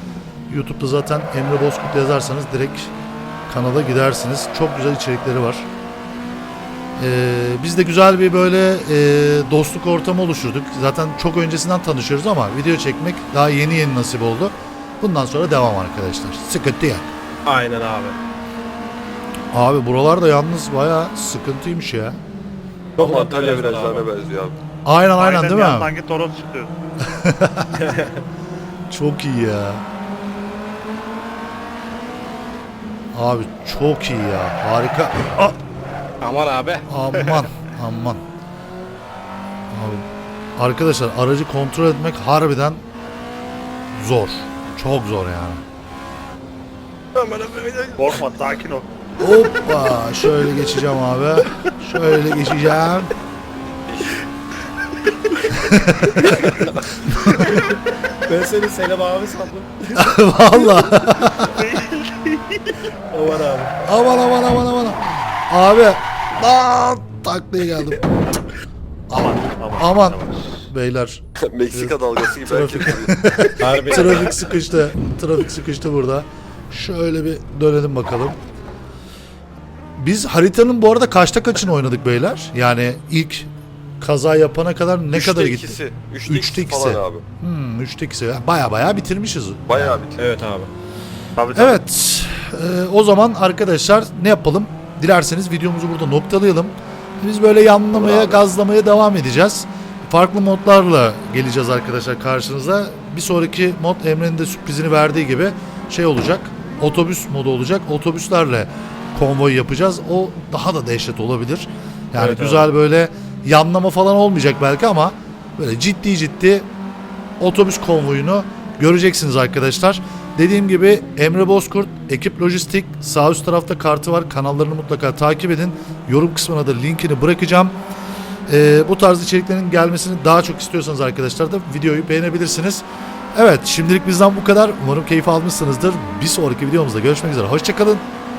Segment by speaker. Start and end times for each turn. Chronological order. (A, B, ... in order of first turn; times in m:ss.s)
0:00.5-0:02.9 A
0:03.5-0:05.7 A
0:07.0-0:17.1 A
0:17.5-0:18.2 B
0:19.5-0:22.2 A
0:23.0-0:24.1 B
0:23.0-0:24.5 C
0:24.8-0:25.9 A
0:25.2-0:26.7 D
0:27.0-0:27.7 A
0:27.7-0:28.2 B
0:28.9-0:29.8 A
0:33.1-0:35.6 A
0:36.2-0:37.4 E
0:36.9-0:38.2 A
0:39.7-0:40.0 A
0:40.6-0:42.8 A
0:43.9-0:45.6 A
0:47.2-0:48.2 E
0:48.0-0:48.9 D
0:49.2-0:53.1 A
0:53.9-0:54.2 C
0:55.6-0:56.1 A
0:56.1-0:56.7 B
0:56.5-0:56.8 C
0:57.2-1:00.1 B
1:00.0-1:01.6 A
1:01.2-1:02.7 D
1:03.1-1:03.7 B
1:03.8-1:08.0 A
1:09.1-1:11.2 A
1:09.1-1:10.5 D
1:11.4-1:13.5 C
1:11.7-1:18.4 A
1:13.6-1:14.3 B
1:20.0-1:23.5 A
1:24.0-1:30.0 A
1:25.1-1:27.2 C
1:29.7-1:30.2 C
1:30.2-1:30.7 B
1:31.4-1:31.8 D
1:31.6-1:56.7 A
1:38.1-1:38.4 C
1:52.2-1:52.7 B
1:57.4-2:07.8 A
2:08.5-2:18.0 A